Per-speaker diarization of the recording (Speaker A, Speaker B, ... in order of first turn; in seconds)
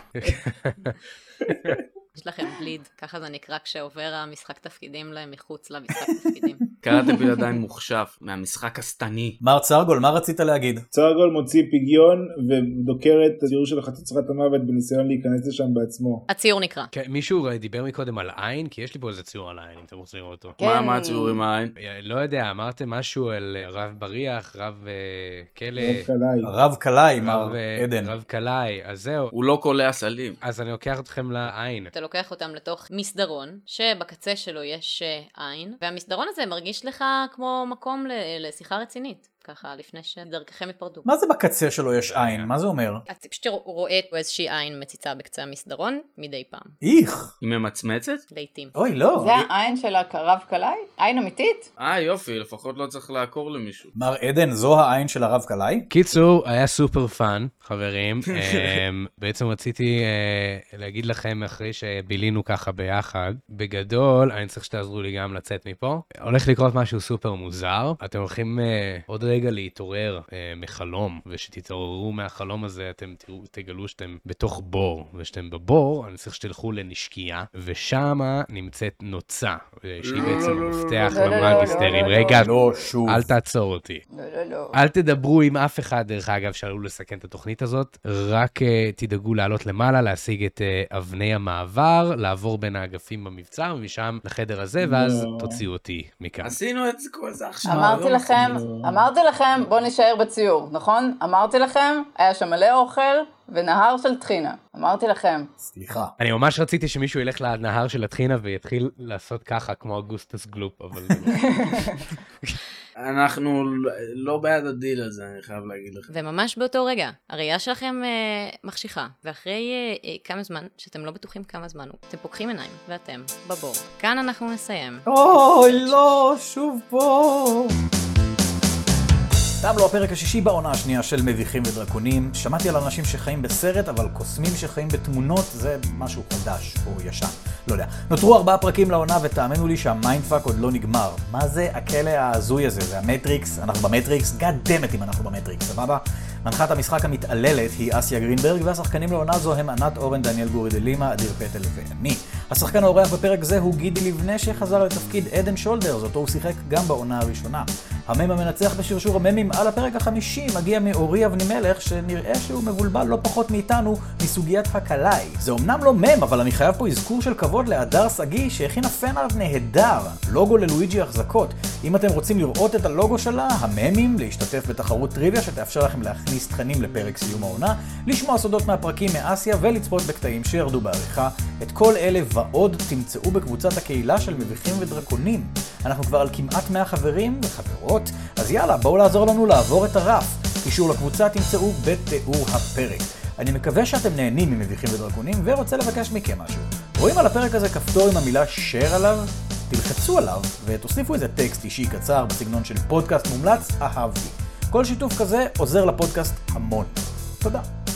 Speaker A: 0.1-1.0, 1.5-1.8, 16.9-20.6, 21.8-26.1, 27.2-29.3, 30.4-31.9, 42.0-42.5, 55.9-84.0, 84.7-96.6, 106.2-111.9
Speaker B: 2.1-6.6, 16.3-16.9, 31.9-41.1, 43.1-46.7, 48.3-48.7, 116.1-126.1
Speaker C: 6.8-9.4, 20.6-21.7, 29.3-30.4, 47.4-48.2, 51.8-53.9, 58.3-58.8, 80.0-82.2, 96.4-98.6, 113.0-116.1
Speaker D: 9.4-10.8, 26.4-28.1, 41.0-43.0, 46.8-47.3, 48.7-49.5, 53.9-55.9, 82.2-83.3, 97.7-98.0, 105.6-106.1, 125.0-127.8, 129.6-207.7
Speaker E: 10.9-16.2, 25.8-26.5, 94.8-95.6, 98.3-99.1
Speaker F: 20.6-21.4, 49.1-51.7, 81.1-82.6, 84.1-84.7, 97.6-105.5